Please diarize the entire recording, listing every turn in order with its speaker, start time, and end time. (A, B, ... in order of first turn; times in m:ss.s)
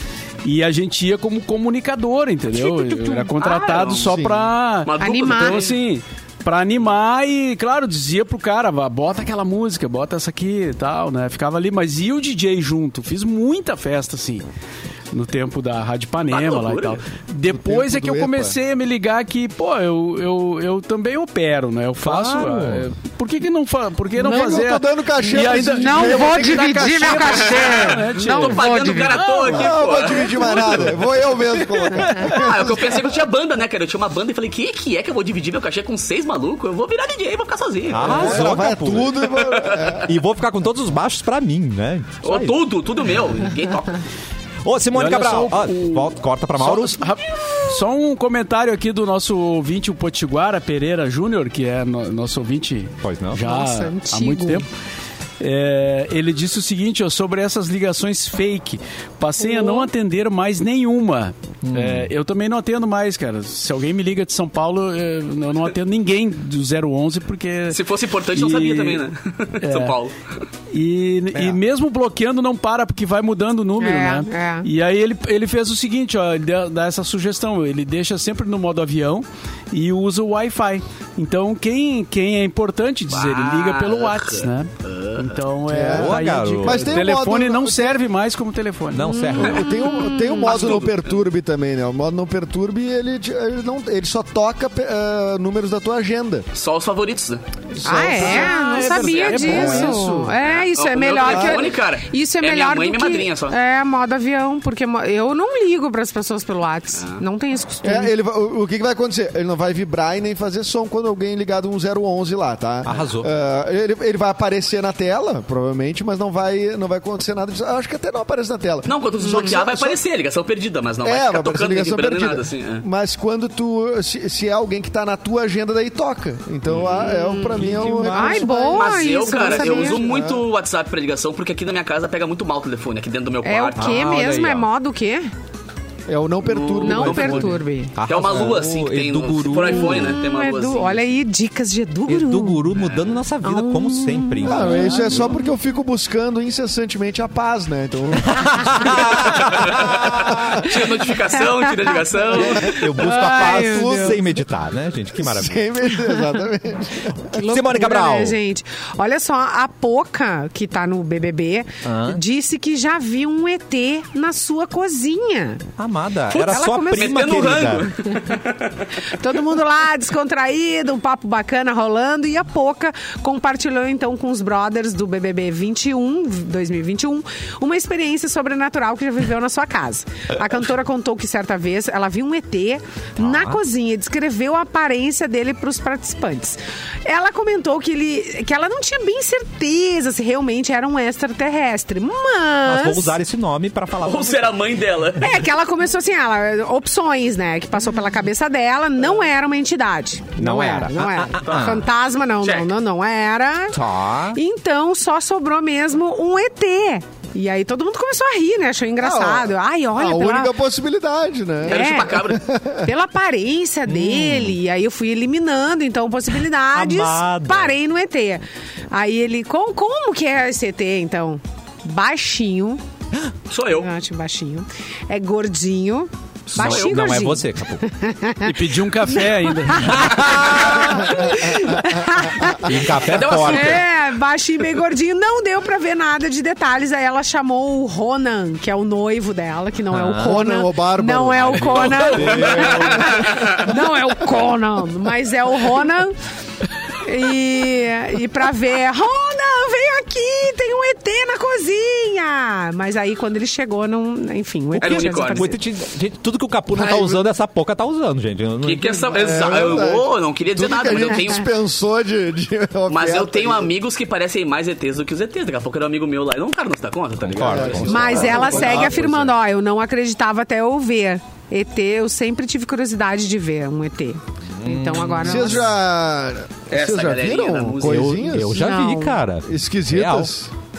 0:00.4-0:14.4 A
0:02.6-0:03.3 B
0:03.4-0:04.2 C
0:04.1-0:04.5 D
0:04.8-0:05.8 C
0:05.0-0:05.7 B
0:15.1-0:32.4 A
0:16.3-0:17.0 C
0:17.5-0:18.6 D
0:22.0-0:22.8 E
0:24.2-0:24.6 B
0:24.2-0:27.7 D
0:25.6-0:29.2 B
0:27.2-0:31.0 C
0:29.5-0:33.2 D
0:32.2-0:38.5 C
0:37.9-0:39.3 E
0:38.0-0:40.1 D
0:39.3-0:40.0 C
0:40.0-0:42.6 E
0:42.2-0:44.0 C
0:44.6-0:47.0 E
0:44.9-0:54.6 A
0:53.0-0:53.4 E
0:53.4-0:54.6 B
0:55.4-1:09.0 A
0:59.4-0:59.9 B
1:01.6-1:02.1 E
1:07.7-1:10.2 C
1:09.6-1:10.0 A
1:10.7-1:29.2 A
1:13.8-1:14.7 B
1:23.1-1:25.4 C
1:25.7-1:28.0 D
1:25.8-1:27.1 E
1:28.9-1:29.7 E
1:29.1-1:30.8 B
1:29.4-1:36.5 D
1:29.4-1:29.9 C
1:30.4-1:31.2 C
1:36.5-1:37.4 C
1:37.8-1:38.6 D
1:37.8-1:48.1 B
1:37.8-1:40.4 A
1:38.6-1:39.7 C
1:39.5-1:40.0 D
1:40.4-1:43.6 C
1:41.2-1:41.6 D
1:47.0-1:47.2 C
1:47.8-2:00.0 D
1:52.8-1:53.3 E
1:58.8-2:02.8 C
1:59.2-1:59.5 B
2:01.0-2:10.4 D
2:06.7-2:07.1 C
2:07.0-2:10.2 B
2:07.6-2:08.5 E
2:08.7-2:14.2 C
2:13.4-2:15.3 B
2:13.8-2:14.6 E
2:16.1-2:17.6 D
2:16.4-2:21.0 C
2:16.8-2:18.0 B
2:18.0-2:20.2 E
2:19.7-2:22.7 B
2:22.1-2:25.3 E
2:22.8-2:23.1 C
2:23.4-2:25.4 B
2:24.4-2:30.6 D
2:28.3-2:30.6 E
2:29.5-2:32.8 C
2:31.5-2:34.2 B
2:32.3-2:35.6 E
2:32.7-2:34.4 D
2:35.2-2:37.3 D
2:37.3-2:45.6 B
2:37.3-2:38.4 E
2:41.8-2:42.2 E
2:45.8-2:47.9 E
2:46.3-2:48.9 C
2:46.4-2:48.4 B
2:49.1-3:13.1 B
3:03.2-3:03.6 E
3:12.6-3:14.5 E
3:14.0-3:15.3 C
3:15.2-3:23.8 B
3:20.4-3:21.8 E
3:21.4-3:21.7 C
3:22.4-3:22.7 C
3:23.7-3:24.4 E
3:24.3-3:30.5 B
3:29.0-3:32.9 D
3:31.7-3:32.4 C
3:31.7-3:32.2 B
3:32.8-3:42.8 B
3:33.9-3:34.6 E
3:36.7-3:37.7 E
3:43.5-3:43.9 C
3:43.7-3:52.8 B
3:46.5-3:47.2 C
3:46.6-3:47.8 E
3:48.4-3:50.2 A
3:49.9-3:51.2 E
3:50.3-3:51.0 C
3:52.5-3:53.8 E
3:52.9-3:53.8 C
3:53.4-4:06.2 B
3:59.9-4:00.4 E
4:00.2-4:02.3 D
4:01.5-4:03.5 E
4:01.7-4:03.7 C
4:06.9-4:15.6 B
4:14.7-4:19.6 E
4:14.8-4:15.5 C
4:16.7-4:17.2 D
4:18.6-4:21.5 C
4:19.1-4:23.7 D
4:22.9-4:29.0 C
4:27.2-4:29.3 E
4:27.4-4:29.0 D
4:27.9-4:35.7 B
4:34.6-4:35.6 E
4:35.2-4:38.6 D
4:36.7-4:38.3 C
4:37.8-4:40.3 E
4:38.5-4:39.2 B
4:39.4-4:40.5 D